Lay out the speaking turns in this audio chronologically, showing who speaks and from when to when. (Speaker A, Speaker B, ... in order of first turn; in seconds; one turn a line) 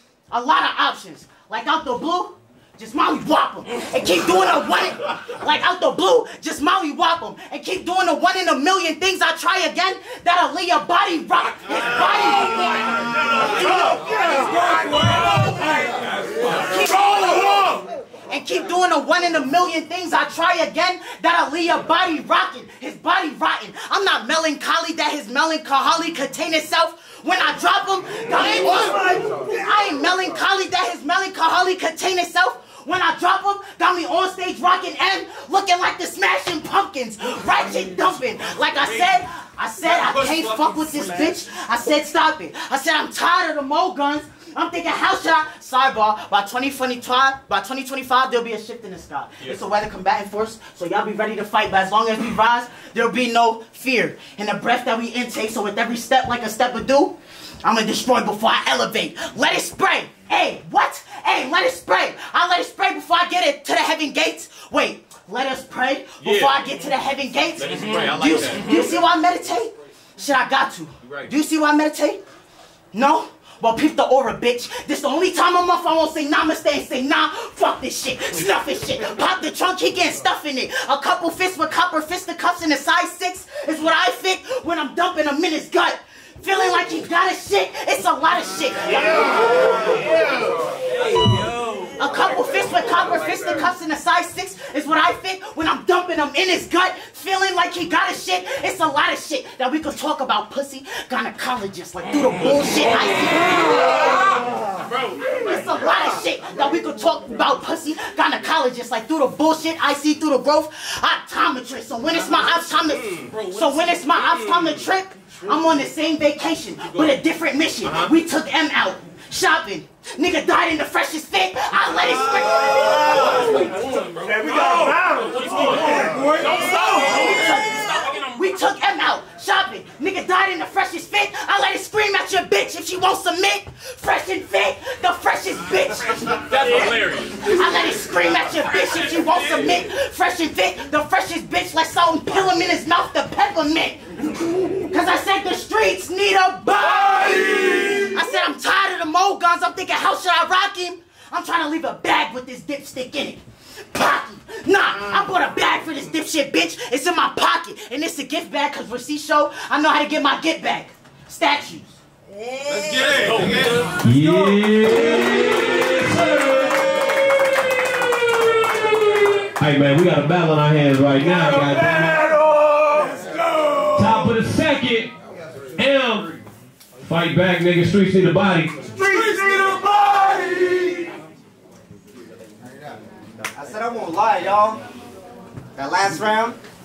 Speaker A: 0.3-72.2
Speaker B: 38.5-39.1
Speaker B: 39.9-41.3
Speaker B: 66.2-66.6
Speaker B: 67.6-68.8
Speaker B: 71.0-71.3
Speaker A: 72.9-90.0
Speaker A: 92.0-104.4
Speaker A: 105.1-153.4
Speaker B: 123.9-128.2
Speaker B: 136.3-137.5
Speaker B: 139.2-139.7
Speaker A: 153.9-161.9
Speaker B: 162.7-164.5
Speaker C: 164.0-167.1
Speaker C: 169.6-172.4
Speaker C: 173.9-175.1
Speaker C: 175.8-176.3
Speaker C: 177.0-178.8
Speaker D: 179.0-180.9
Speaker D: 183.5-184.8
Speaker D: 185.8-186.6